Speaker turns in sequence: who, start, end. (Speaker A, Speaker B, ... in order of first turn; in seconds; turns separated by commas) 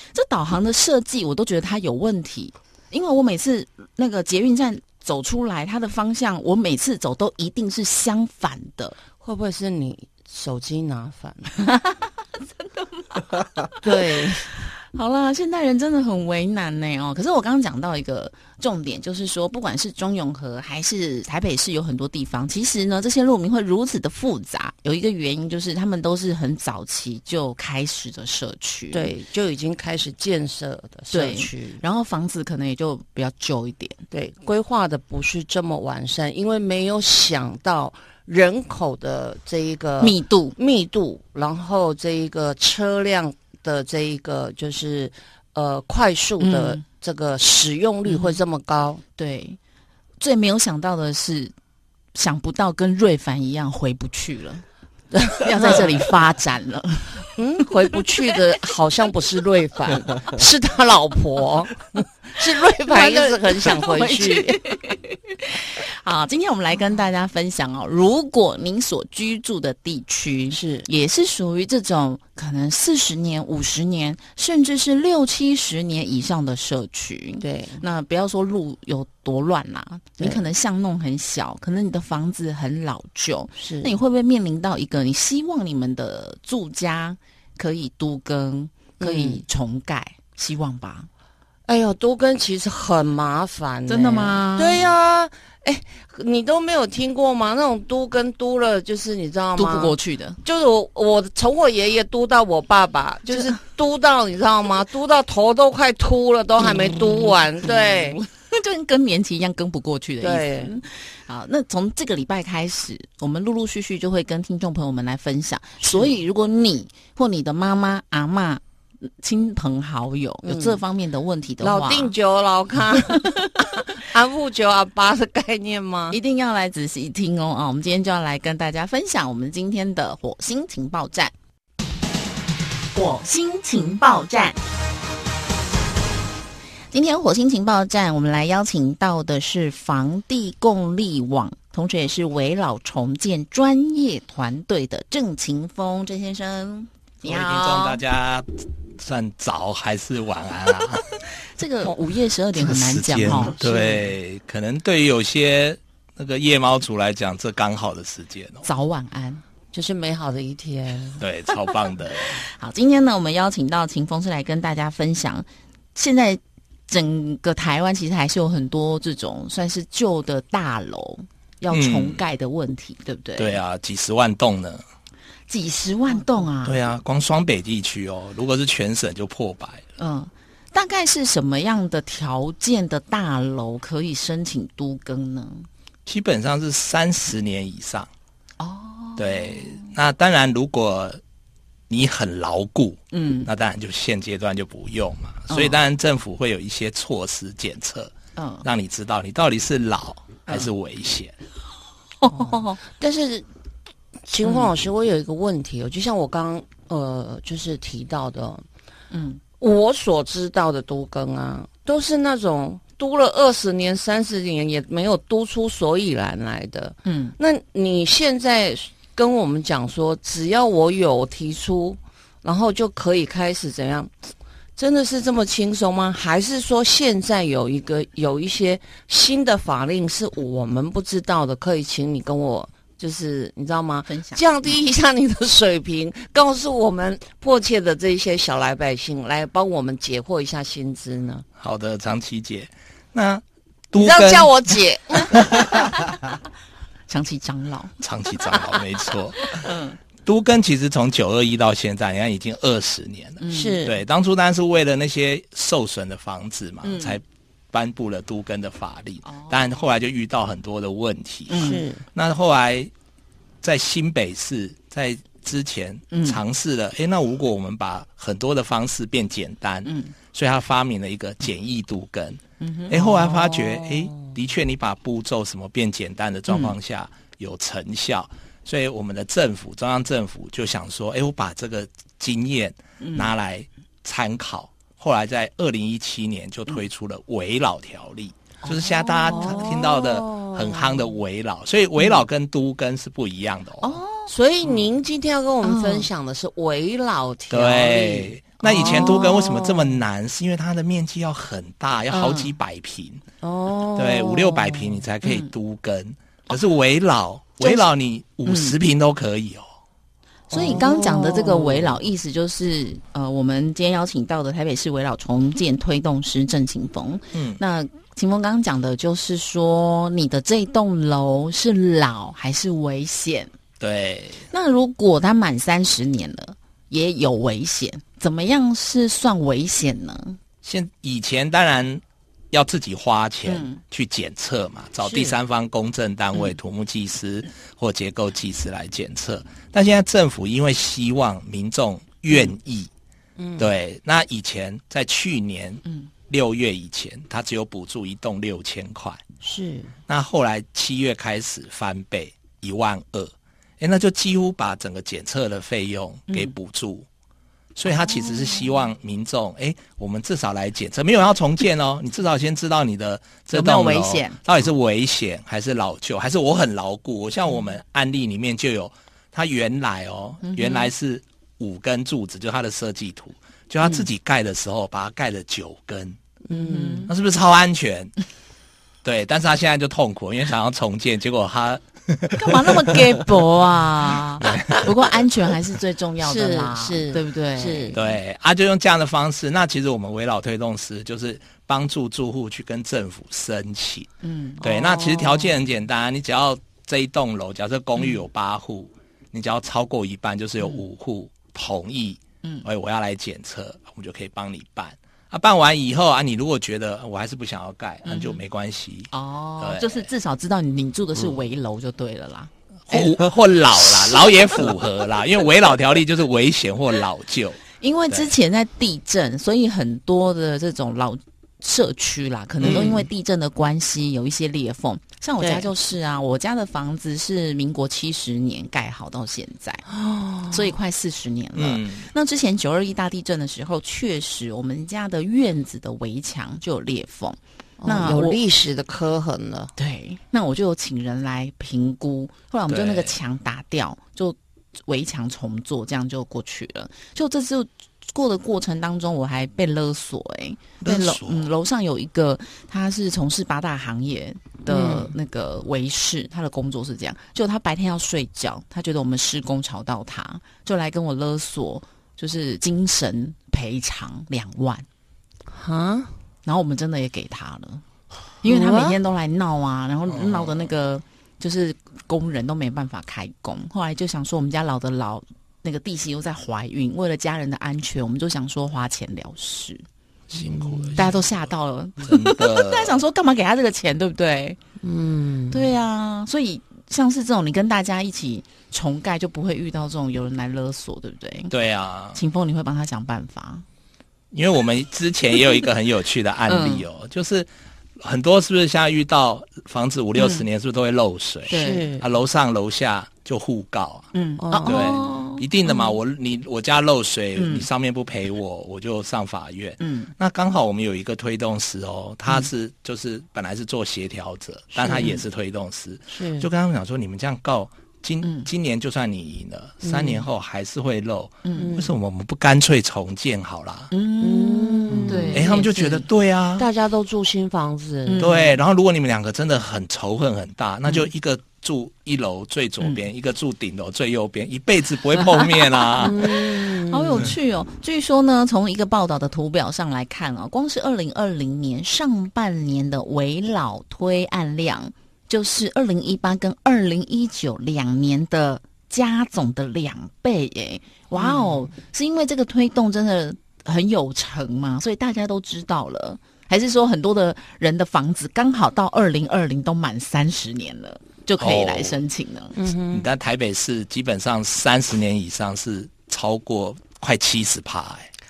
Speaker A: 0.1-9.0, Speaker B: 9.2-11.6, Speaker A: 11.6-29.1, Speaker B: 13.8-14.5, Speaker B: 28.9-31.8, Speaker A: 31.1-34.0, Speaker B: 34.1-49.0, Speaker A: 40.0-40.5, Speaker A: 46.4-46.8, Speaker A: 48.1-48.4, Speaker A: 49.2-49.6, Speaker A: 50.2-51.5, Speaker A: 52.1-54.6, Speaker B: 55.1-56.0, Speaker A: 55.4-57.3, Speaker B: 57.4-64.6, Speaker A: 62.9-91.1, Speaker B: 70.5-70.9, Speaker B: 77.4-77.8, Speaker B: 83.6-84.0, Speaker B: 89.0-89.4, Speaker B: 91.7-108.2, Speaker A: 93.9-94.9, Speaker A: 99.6-100.4, Speaker A: 103.3-103.6, Speaker A: 106.6-122.1, Speaker B: 110.2-110.7, Speaker B: 115.8-116.1, Speaker B: 120.4-120.8, Speaker B: 121.6-126.2, Speaker A: 123.1-123.8, Speaker A: 126.1-131.3, Speaker A: 132.9-134.6, Speaker A: 136.9-148.0, Speaker C: 147.2-151.1, Speaker A: 151.6-154.0, Speaker C: 152.6-158.7, Speaker A: 158.6-159.4, Speaker B: 159.7-161.2, Speaker C: 161.2-162.4, Speaker A: 162.4-173.6, Speaker C: 171.7-172.2, Speaker C: 173.4-174.8, Speaker A: 175.5-176.8, Speaker C: 176.6-179.8, Speaker A: 180.0-185.7, Speaker C: 186.1-188.1, Speaker A: 188.6-189.9, Speaker C: 189.2-191.2, Speaker C: 191.9-198.1, Speaker A: 193.1-193.5, Speaker A: 195.5-195.8, Speaker A: 198.4-198.7, Speaker C: 198.6-201.3, Speaker A: 202.2-202.8, Speaker B: 202.3-203.5, Speaker B: 204.3-208.6, Speaker A: 204.4-204.7, Speaker A: 209.1-209.4, Speaker B: 209.6-241.5, Speaker A: 217.1-217.3, Speaker A: 234.1-234.4, Speaker C: 241.6-244.5, Speaker B: 244.0-245.8, Speaker A: 245.8-246.2, Speaker A: 247.1-247.9, Speaker C: 248.0-249.7, Speaker A: 249.4-250.0, Speaker C: 250.2-262.9, Speaker A: 253.4-253.9, Speaker B: 253.5-253.9, Speaker A: 256.8-257.2, Speaker A: 259.2-259.8, Speaker A: 261.5-261.8, Speaker B: 261.6-262.0, Speaker C: 263.6-294.0, Speaker A: 266.1-266.4, Speaker A: 269.9-270.1, Speaker A: 272.6-273.3, Speaker B: 273.0-274.3, Speaker A: 276.5-276.8, Speaker A: 283.0-283.3, Speaker A: 288.6-289.8, Speaker B: 289.3-291.1, Speaker A: 293.8-294.3, Speaker B: 294.3-299.5, Speaker A: 295.6-296.1, Speaker C: 297.5-303.2, Speaker A: 298.6-299.7, Speaker A: 302.1-302.6, Speaker B: 303.4-305.1, Speaker C: 303.9-309.7, Speaker A: 305.2-305.5, Speaker A: 307.6-307.9, Speaker A: 308.5-308.8, Speaker A: 310.5-323.5, Speaker B: 310.5-312.0, Speaker C: 317.3-317.6, Speaker C: 323.8-324.4, Speaker A: 324.5-330.4, Speaker C: 330.6-342.9, Speaker A: 333.5-333.8, Speaker B: 335.0-335.4, Speaker B: 343.4-343.7, Speaker C: 343.6-349.2, Speaker B: 349.4-350.0, Speaker C: 350.1-357.1, Speaker A: 356.3-356.5, Speaker C: 357.8-376.2, Speaker A: 357.9-358.8, Speaker A: 363.5-364.4, Speaker A: 370.4-370.9, Speaker B: 376.4-377.1, Speaker A: 376.5-377.1, Speaker C: 377.1-378.1, Speaker C: 379.0-383.2, Speaker A: 382.4-388.0, Speaker C: 384.4-384.9, Speaker B: 384.4-384.9, Speaker B: 386.2-388.0, Speaker C: 387.9-394.1, Speaker A: 394.2-394.6, Speaker B: 394.6-395.5, Speaker C: 394.6-410.1, Speaker A: 408.1-408.4, Speaker A: 409.1-412.5, Speaker C: 412.9-418.3, Speaker A: 417.8-429.9, Speaker C: 422.6-423.0, Speaker B: 422.6-423.1, Speaker B: 425.4-425.7, Speaker B: 429.9-430.8, Speaker A: 430.5-438.4, Speaker C: 431.6-432.1, Speaker B: 437.8-439.7, Speaker A: 439.8-464.9, Speaker C: 442.7-443.1, Speaker C: 450.8-451.5, Speaker B: 454.7-455.1, Speaker B: 465.5-466.1, Speaker A: 466.4-467.8, Speaker A: 468.4-479.8, Speaker B: 468.4-469.0, Speaker C: 470.1-470.7, Speaker C: 480.3-481.2, Speaker B: 480.4-481.0, Speaker A: 480.9-484.6, Speaker C: 482.0-483.0, Speaker B: 484.8-485.7, Speaker A: 485.5-491.5, Speaker C: 491.5-492.2, Speaker A: 492.1-493.6, Speaker C: 494.3-497.5, Speaker A: 496.5-496.9, Speaker C: 498.0-504.1, Speaker A: 500.2-500.5, Speaker A: 501.5-501.9, Speaker B: 501.5-502.1, Speaker A: 504.1-505.9, Speaker B: 504.4-505.1, Speaker C: 504.7-523.9, Speaker A: 507.4-507.7, Speaker A: 509.8-510.1, Speaker A: 514.8-515.2, Speaker B: 516.1-516.5, Speaker A: 518.2-518.5, Speaker B: 519.8-520.3, Speaker A: 521.4-521.8, Speaker B: 521.6-521.9, Speaker A: 523.9-526.0, Speaker B: 524.2-525.6, Speaker C: 525.3-526.7, Speaker B: 526.6-528.4, Speaker A: 528.1-528.6, Speaker C: 528.2-536.3, Speaker A: 535.2-562.6, Speaker B: 536.0-537.3, Speaker B: 551.2-551.7, Speaker C: 561.4-562.0, Speaker B: 562.5-563.1, Speaker C: 562.9-568.1